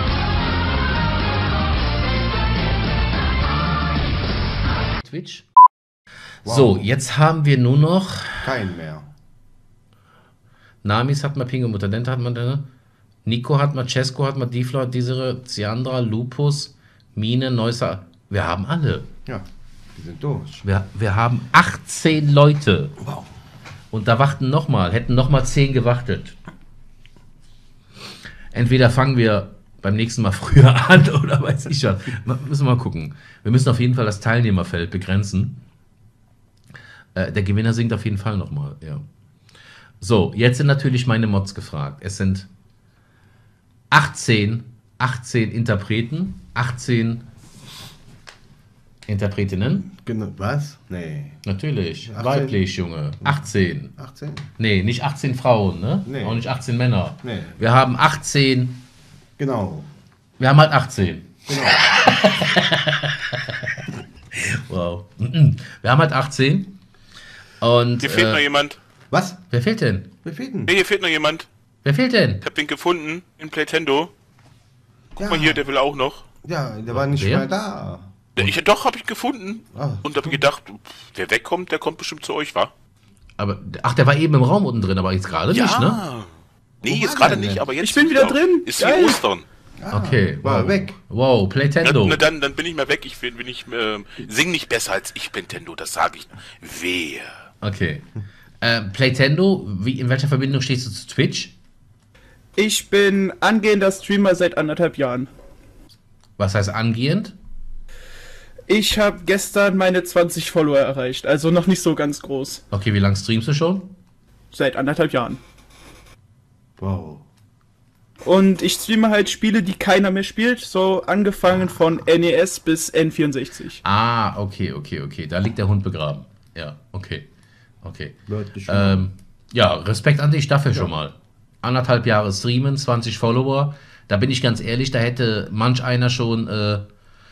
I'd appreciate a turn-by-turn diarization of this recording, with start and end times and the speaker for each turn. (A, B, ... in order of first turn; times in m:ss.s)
0:05.0-0:05.5 A
0:06.4-0:06.8 B
0:06.4-0:08.6 A
0:08.4-0:09.1 B
0:10.8-0:12.6 A
0:13.2-0:19.1 A
0:19.3-0:20.6 B
0:20.6-0:23.0 A
0:23.9-0:26.4 A
0:28.5-0:35.6 A
0:37.2-0:39.0 A
0:40.0-0:42.5 A
0:43.9-0:47.2 A
0:49.1-0:49.9 A
0:49.9-0:51.4 B
0:51.4-0:53.9 A
0:52.1-0:52.6 B
0:54.0-0:54.5 B
0:54.6-0:58.8 A
0:56.1-0:56.5 B
0:57.2-0:57.6 B
0:59.4-0:59.9 B
1:00.4-1:03.8 A
1:01.5-1:01.9 B
1:04.4-1:06.8 A
1:07.6-1:08.4 A
1:08.0-1:08.8 C
1:09.1-1:09.4 B
1:09.5-1:10.1 A
1:10.2-1:10.8 B
1:10.7-1:11.5 C
1:11.8-1:12.4 A
1:12.4-1:14.1 C
1:15.2-1:16.2 C
1:15.2-1:15.6 B
1:16.4-1:18.1 B
1:17.0-1:17.5 A
1:18.4-1:22.7 C
1:19.7-1:20.2 B
1:23.4-1:26.0 A
1:25.5-1:26.3 C
1:26.8-1:27.6 B
1:26.8-1:29.4 C
1:27.8-1:29.2 D
1:29.8-1:31.0 B
1:29.9-1:32.3 A
1:31.8-1:37.3 C
1:37.6-1:38.1 A
1:38.6-1:41.5 A
1:42.6-1:45.3 D
1:46.4-1:47.4 A
1:48.7-1:52.6 D
1:52.7-1:53.9 A
1:54.5-1:55.4 D
1:56.8-1:57.2 B
1:58.2-2:03.8 D
2:03.8-2:07.3 A
2:07.8-2:16.8 A
2:08.3-2:09.0 B